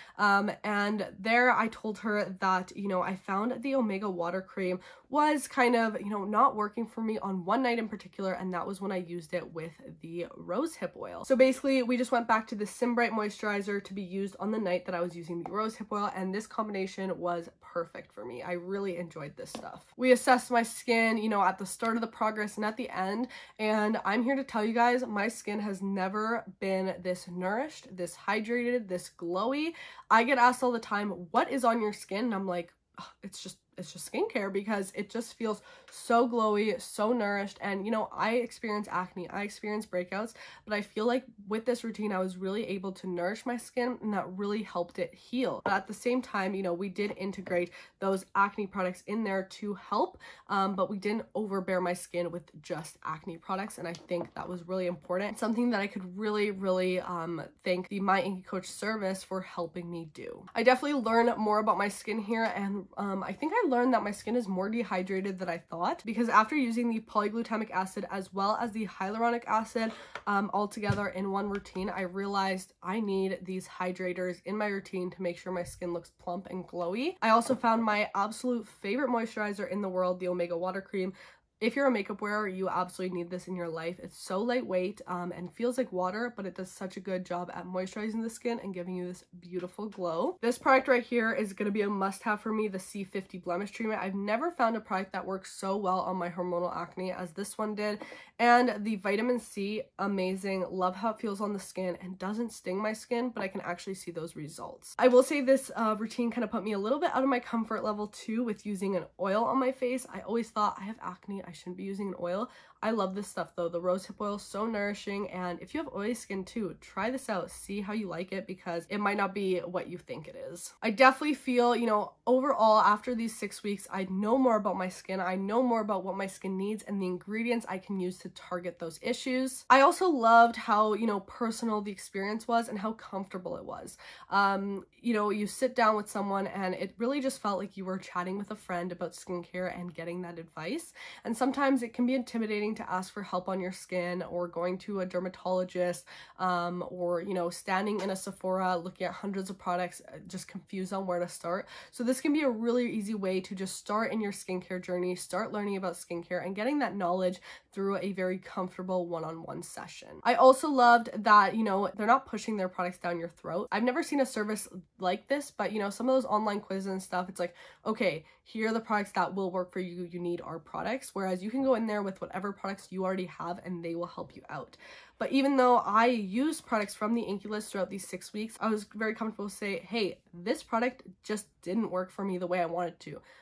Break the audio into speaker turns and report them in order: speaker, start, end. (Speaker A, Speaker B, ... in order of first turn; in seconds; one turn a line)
Speaker A: 0.2-183.2